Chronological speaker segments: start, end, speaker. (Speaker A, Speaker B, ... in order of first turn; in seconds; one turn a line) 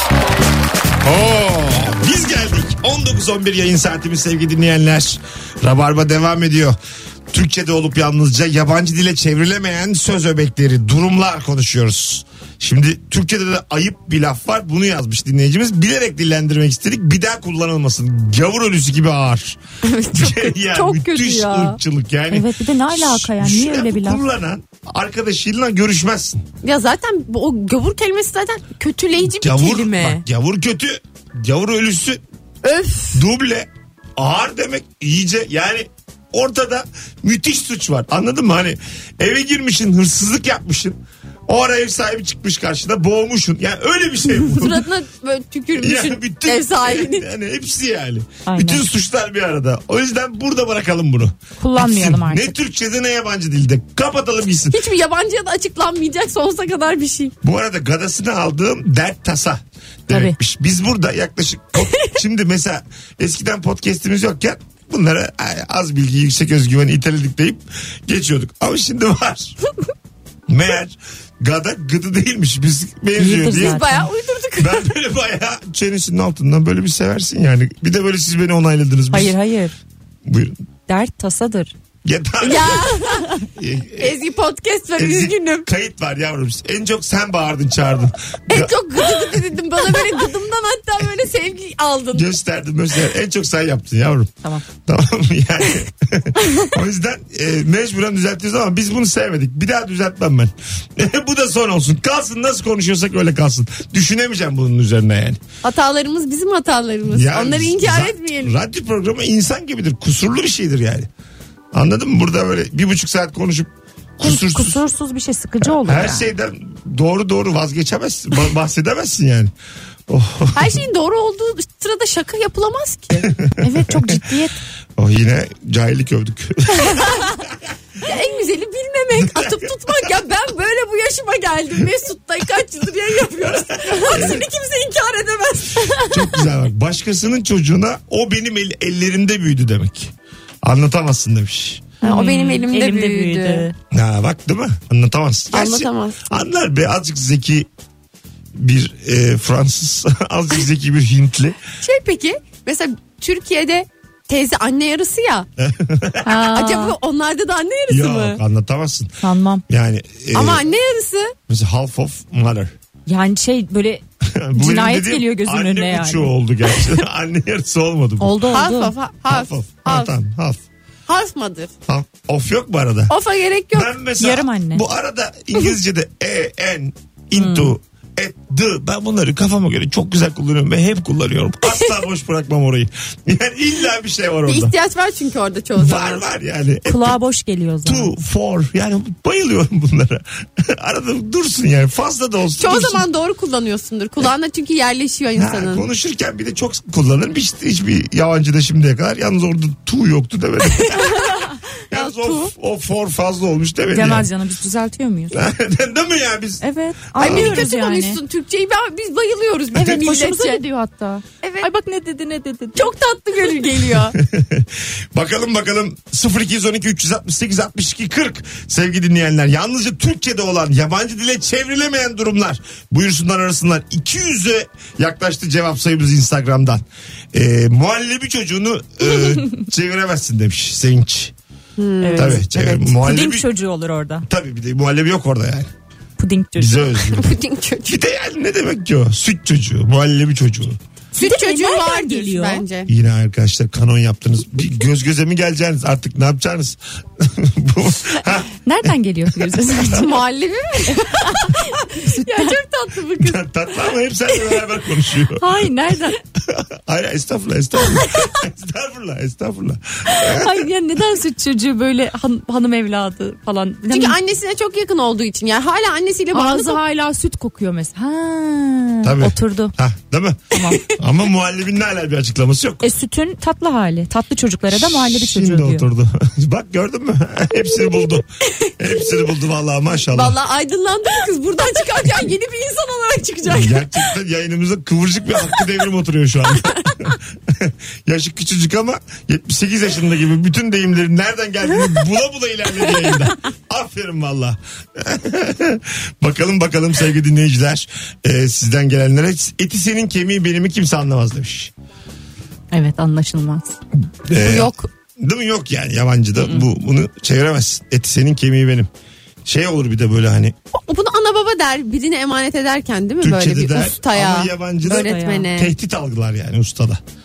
Speaker A: 1.0-6.8
Speaker A: 7.3-19.6
Speaker B: 19.8-21.8
Speaker A: 20.1-26.4
Speaker C: 22.3-24.2
Speaker B: 26.6-30.2
Speaker A: 29.2-32.2
Speaker B: 32.6-33.2
Speaker A: 33.1-44.8
Speaker B: 44.5-47.3
Speaker A: 45.8-54.8
Speaker C: 48.5-48.8
Speaker C: 51.6-52.5
Speaker B: 54.7-57.3
Speaker A: 57.4-69.6
Speaker C: 60.1-60.3
Speaker A: 70.5-73.8
Speaker C: 73.2-74.1
Speaker B: 73.5-74.9
Speaker A: 74.6-79.3
Speaker C: 79.1-79.7
Speaker A: 80.2-80.6
Speaker C: 80.9-81.7
Speaker A: 82.0-82.9
Speaker B: 82.4-83.4
Speaker A: 83.5-84.2
Speaker B: 84.0-85.7
Speaker A: 85.0-89.2
Speaker B: 88.5-92.3
Speaker A: 92.1-105.4
Speaker B: 105.6-108.5
Speaker A: 107.1-111.1
Speaker A: 111.7-114.8
Speaker C: 114.2-116.2
Speaker A: 115.6-119.5
Speaker A: 120.1-120.8
Speaker B: 120.5-123.3
Speaker A: 123.4-124.2
Speaker C: 123.6-124.6
Speaker A: 125.0-127.3
Speaker B: 128.0-136.3
Speaker A: 129.2-130.1
Speaker A: 133.4-134.4
Speaker A: 136.1-141.9
Speaker B: 142.0-143.7
Speaker C: 142.0-143.8
Speaker A: 143.9-147.7
Speaker B: 145.5-146.2
Speaker A: 148.5-151.6
Speaker B: 151.8-155.5
Speaker A: 155.6-156.5
Speaker C: 156.2-156.9
Speaker B: 156.5-158.4
Speaker A: 157.9-160.7
Speaker C: 159.2-159.6
Speaker B: 160.3-161.3
Speaker A: 161.5-162.7
Speaker C: 163.1-164.0
Speaker A: 164.3-168.4
Speaker C: 164.5-166.9
Speaker C: 168.2-168.9
Speaker B: 168.5-170.1
Speaker A: 169.3-170.6
Speaker B: 171.1-171.7
Speaker A: 171.9-173.1
Speaker B: 173.1-173.9
Speaker A: 173.7-184.7
Speaker C: 174.2-174.8
Speaker C: 177.3-177.7
Speaker B: 184.5-186.2
Speaker A: 185.8-187.2
Speaker C: 186.8-188.1
Speaker A: 187.8-193.0
Speaker B: 192.6-195.8
Speaker A: 195.3-201.3
Speaker B: 200.8-202.5
Speaker A: 201.9-204.3
Speaker C: 203.9-205.3
Speaker A: 205.3-206.6
Speaker C: 206.6-208.2
Speaker A: 207.1-207.6
Speaker B: 207.2-210.6
Speaker C: 209.8-212.9
Speaker B: 211.4-211.7
Speaker B: 212.7-214.2
Speaker A: 214.2-231.3
Speaker C: 229.1-229.6
Speaker B: 231.8-232.4
Speaker C: 232.0-234.2
Speaker A: 232.2-233.5
Speaker A: 234.2-235.7
Speaker C: 236.2-236.9
Speaker A: 236.6-237.3
Speaker B: 237.1-238.0
Speaker A: 237.9-240.8
Speaker C: 241.1-242.6
Speaker B: 241.2-242.9
Speaker A: 242.9-250.0
Speaker C: 248.7-250.2
Speaker B: 249.9-253.4
Speaker C: 250.9-252.6
Speaker A: 253.2-255.5
Speaker C: 255.3-256.2
Speaker A: 256.4-260.7
Speaker C: 260.1-264.2
Speaker B: 263.9-266.8
Speaker C: 266.3-269.7
Speaker A: 269.0-272.9
Speaker C: 270.5-270.9
Speaker C: 272.8-275.8
Speaker A: 274.7-280.4
Speaker B: 278.4-279.1
Speaker B: 280.1-284.0
Speaker A: 283.5-301.7
Speaker C: 302.7-303.8
Speaker A: 304.3-308.9
Speaker B: 304.4-304.9
Speaker A: 309.4-310.5
Speaker B: 310.7-315.7
Speaker A: 313.2-317.0
Speaker C: 314.9-315.5